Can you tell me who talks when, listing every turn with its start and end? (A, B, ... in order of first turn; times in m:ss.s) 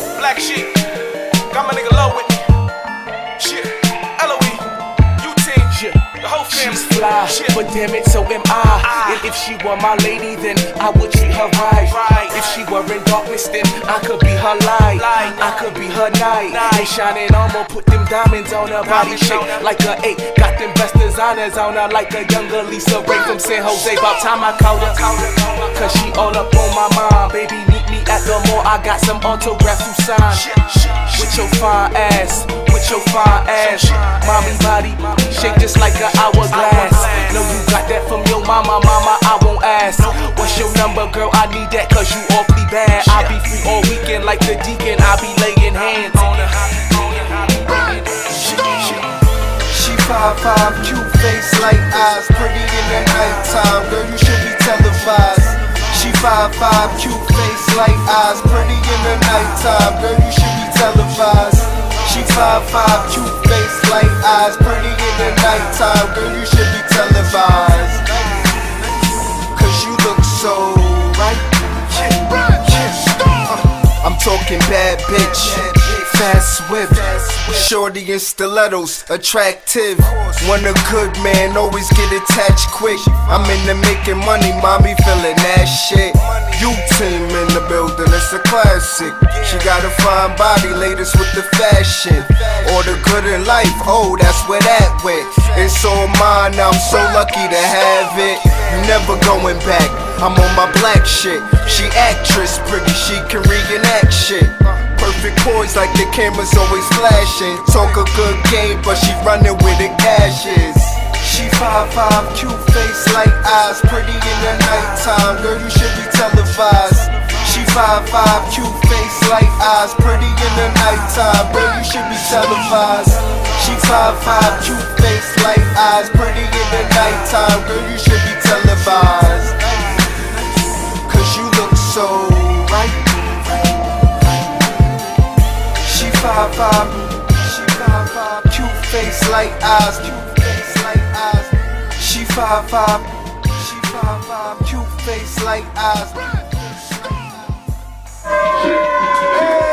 0:00.2-0:00.9 A
0:01.5-0:02.5 A
0:03.4-0:04.6 A
0:04.4-0:04.6 B
0:05.2-0:05.7 A
0:05.4-0:46.5 B
0:06.2-0:07.4 A
0:12.0-0:12.3 A
0:15.1-0:15.6 A
0:19.0-0:19.4 A
0:30.5-0:30.9 A
0:33.7-0:34.2 A
0:36.3-0:37.4 A
0:46.1-0:48.3 A
0:47.7-0:49.0 B
0:49.7-1:08.4 C
1:09.5-2:10.0 C
2:11.1-2:13.8 C
2:15.8-2:27.4 C